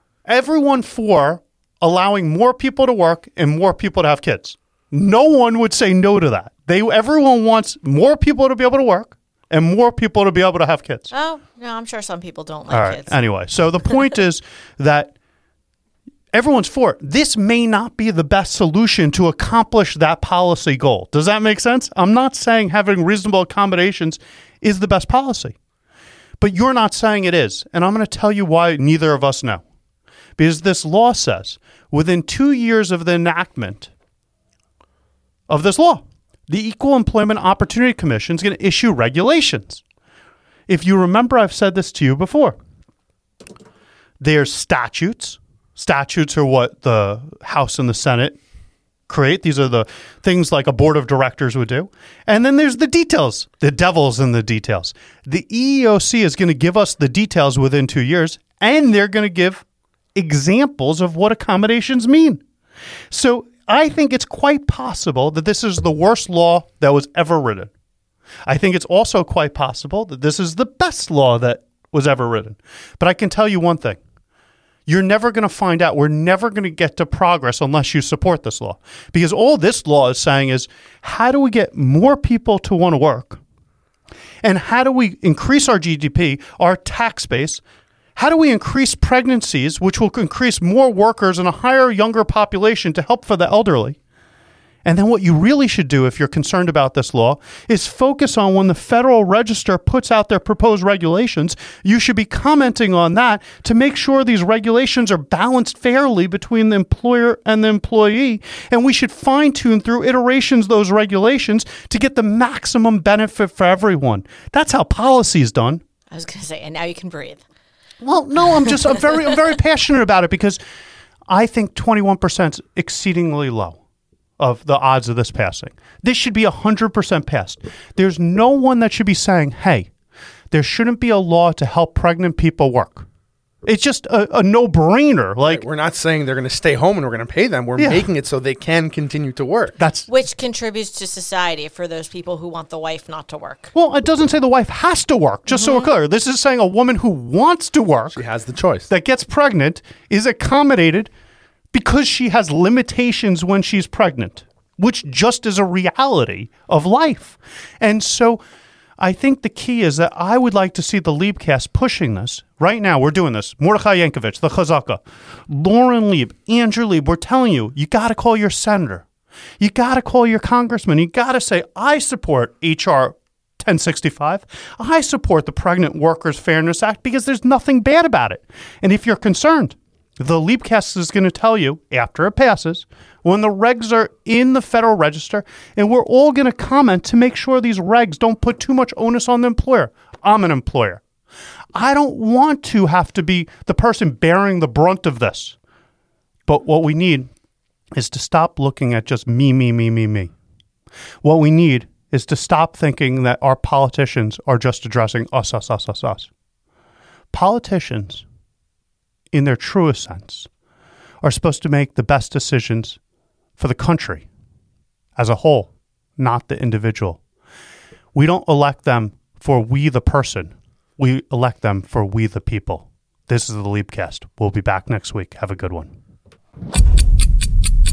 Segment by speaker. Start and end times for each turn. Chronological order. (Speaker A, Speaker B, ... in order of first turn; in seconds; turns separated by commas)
Speaker A: 0.3-11.1, Speaker B: 11.1-13.2, Speaker A: 12.7-15.1, Speaker A: 16.3-25.6, Speaker A: 26.4-29.6, Speaker A: 30.4-33.9, Speaker A: 35.5-39.8, Speaker A: 40.7-42.6, Speaker A: 44.2-48.4, Speaker A: 49.1-59.6, Speaker A: 60.1-62.4, Speaker A: 63.1-67.7, Speaker A: 68.5-74.0, Speaker A: 74.9-83.4, Speaker A: 84.4-87.6, Speaker A: 88.2-94.0, Speaker A: 94.8-115.8, Speaker B: 116.1-117.4, Speaker A: 118.0-120.6, Speaker A: 121.3-123.8, Speaker A: 124.4-129.9, Speaker A: 130.5-133.1, Speaker A: 133.7-135.7, Speaker C: 135.5-139.8, Speaker A: 137.8-138.1, Speaker A: 139.8-140.1, Speaker B: 140.1-143.7, Speaker A: 143.7-148.2, Speaker B: 145.5-145.9, Speaker C: 148.2-148.9, Speaker A: 148.9-151.1, Speaker A: 151.7-158.4, Speaker A: 159.0-169.1, Speaker A: 169.6-191.0, Speaker A: 191.8-195.6, Speaker A: 196.5-197.3, Speaker A: 197.9-200.3, Speaker A: 201.2-206.3, Speaker A: 207.3-208.2, Speaker A: 209.3-210.5, Speaker A: 211.2-213.0, Speaker A: 213.6-214.3, Speaker A: 215.2-217.2, Speaker A: 218.1-225.9